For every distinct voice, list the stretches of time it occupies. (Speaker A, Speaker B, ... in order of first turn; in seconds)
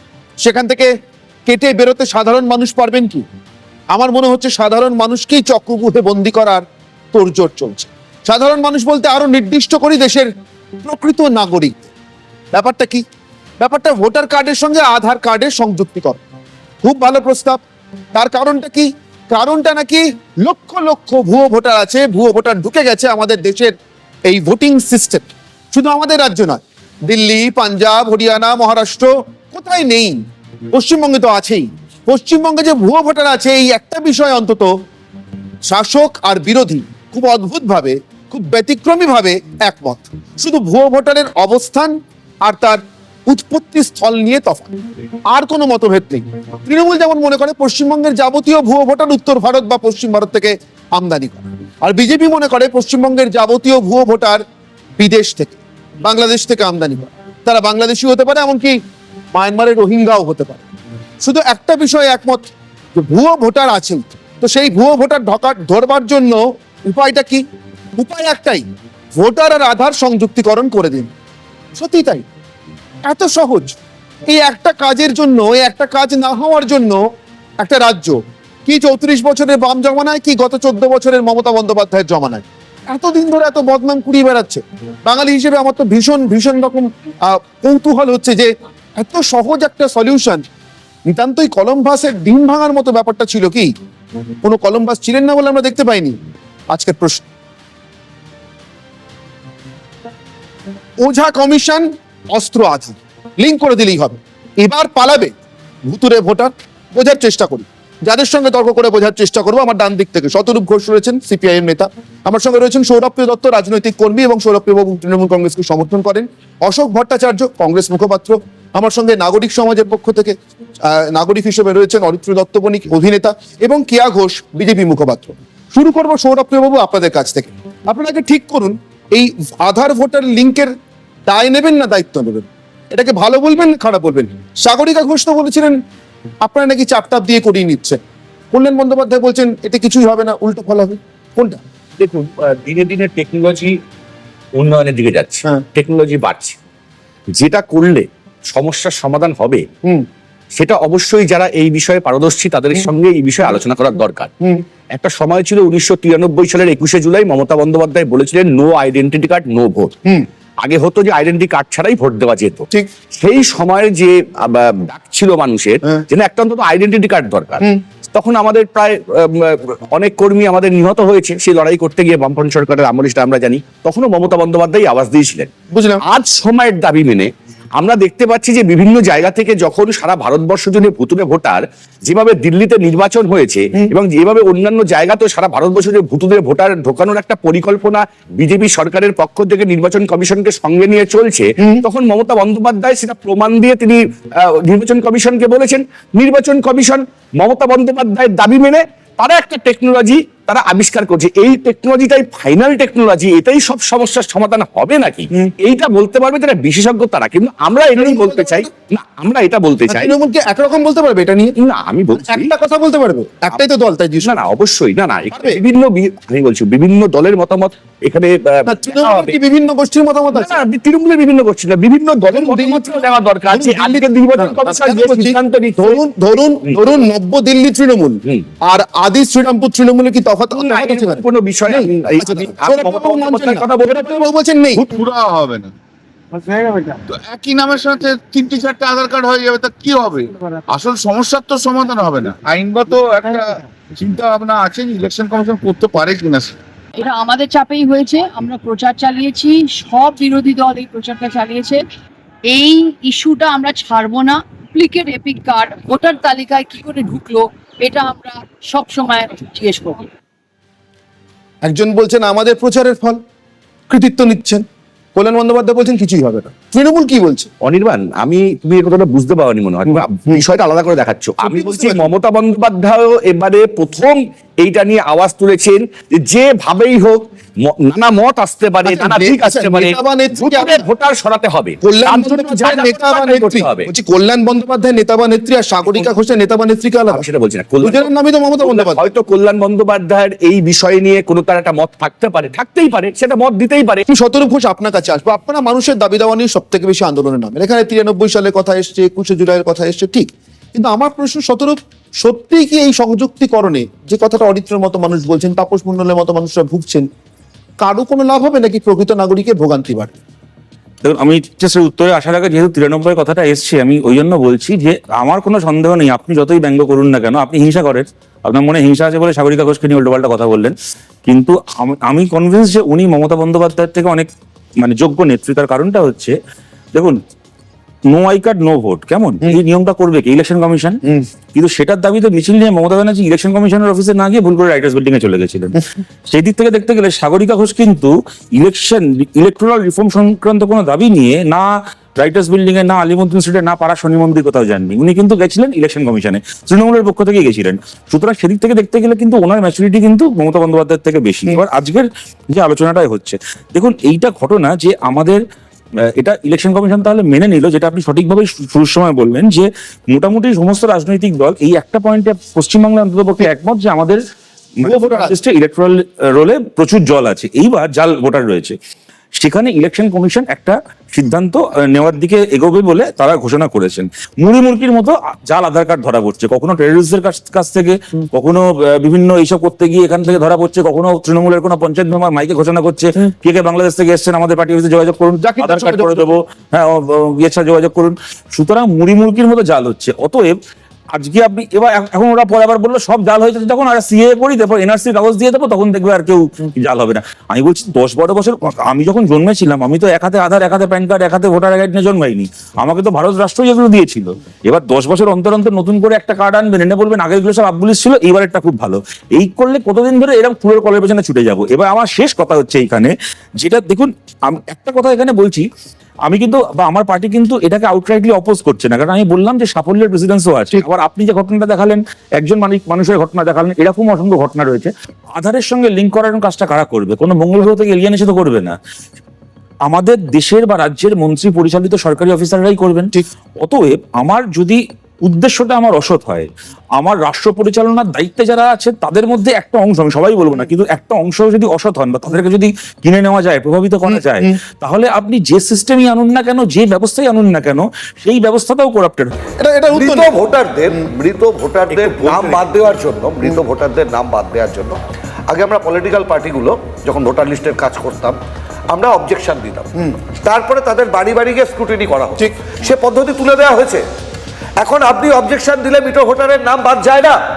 Speaker A: 0.4-0.9, 1.5-3.2, 3.9-6.6, 7.1-10.3, 10.8-11.9, 12.5-13.0, 13.6-16.2, 16.8-17.6, 18.1-23.7, 24.3-30.2, 30.7-34.7, 35.7-41.9, 42.4-44.7, 45.3-54.4, 55.0-58.8, 59.3-60.6, 61.2-67.4, 68.0-68.6, 69.2-71.1, 71.7-72.2, 73.0-73.7, 74.3-77.0, 77.6-90.4, 91.1-93.7, 94.4-96.2, 96.7-97.2, 101.0-105.3, 105.9-120.3, 120.8-130.7, 131.3-135.8, 136.4-138.0, 138.5-141.6, 175.7-176.0, 208.0-208.7, 209.9-211.5, 212.2-214.3, 215.3-215.6, 218.7-220.6, 222.3-234.9, 261.6-263.2, 263.9-267.5, 271.4-272.1, 278.8-280.8, 281.8-287.2, 287.8-289.0, 294.1-307.1, 307.8-310.2, 364.8-365.4, 385.4-386.3, 449.6-450.3
Speaker B: 142.0-143.8, 144.6-146.6, 147.3-149.6, 150.6-154.3, 154.9-159.9, 160.6-162.6, 163.2-175.5, 176.1-210.1, 211.6-212.5, 214.2-219.4, 220.3-226.0, 230.5-234.2, 234.7-235.0, 267.6-283.9, 287.1-288.1, 288.6-294.0, 451.9-452.6
Speaker C: 234.9-235.7, 237.1-246.6
Speaker D: 247.0-251.8, 252.5-260.1
Speaker E: 311.0-324.3, 324.8-326.3, 328.1-331.0, 331.5-341.7, 342.2-355.4, 356.2-364.2, 364.8-368.8, 369.4-390.6, 391.1-415.6, 416.2-428.7, 429.9-433.1, 433.6-449.3
Speaker F: 449.9-455.0, 455.5-458.4, 458.9-464.0, 464.8-467.4